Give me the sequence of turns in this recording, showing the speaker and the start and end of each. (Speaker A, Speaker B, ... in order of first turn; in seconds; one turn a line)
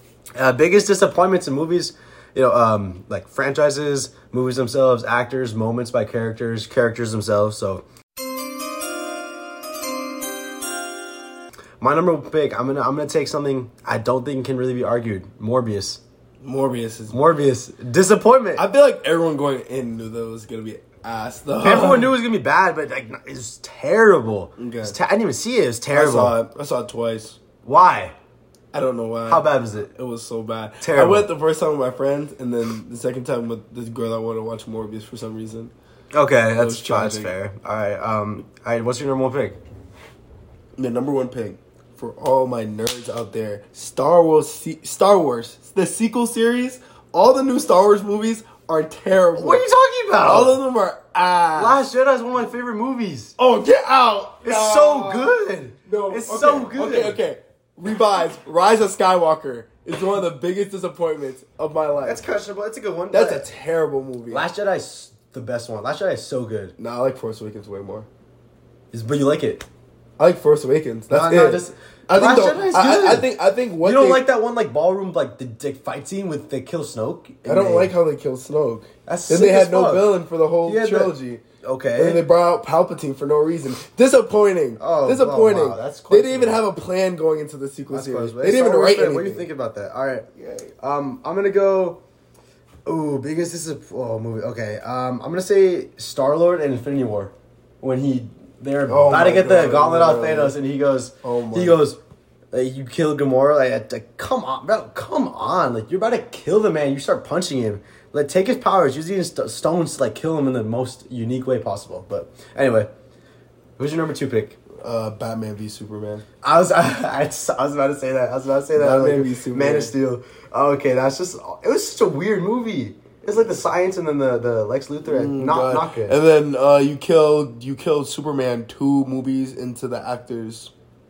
Speaker A: 0.4-7.8
Speaker A: 11.8-16.0
Speaker B: 16.4-17.2
Speaker A: 17.1-18.6
Speaker B: 18.6-22.1
Speaker A: 21.6-26.4
Speaker B: 24.6-25.0
Speaker B: 25.9-27.4
Speaker A: 27.6-28.1
Speaker B: 28.7-35.7
Speaker A: 29.3-29.9
Speaker A: 30.8-31.3
Speaker A: 36.1-39.6
Speaker B: 36.6-37.3
Speaker B: 40.8-49.6
Speaker A: 49.3-50.6
Speaker B: 50.2-51.8
Speaker A: 51.5-53.4
Speaker B: 53.4-62.2
Speaker A: 54.4-57.2
Speaker A: 62.0-63.5
Speaker B: 63.1-64.5
Speaker A: 64.3-66.7
Speaker B: 66.8-68.1
Speaker A: 68.9-69.7
Speaker B: 70.2-74.2
Speaker A: 71.1-73.3
Speaker A: 73.8-78.0
Speaker B: 77.5-81.4
Speaker A: 79.0-82.2
Speaker B: 81.9-89.5
Speaker A: 84.8-86.6
Speaker A: 87.9-90.2
Speaker B: 90.4-90.7
Speaker A: 90.8-92.0
Speaker A: 92.8-102.0
Speaker B: 98.9-100.6
Speaker B: 101.2-101.8
Speaker A: 102.5-112.9
Speaker A: 113.8-114.6
Speaker B: 114.8-116.2
Speaker A: 116.4-126.2
Speaker B: 118.7-119.9
Speaker B: 125.0-130.7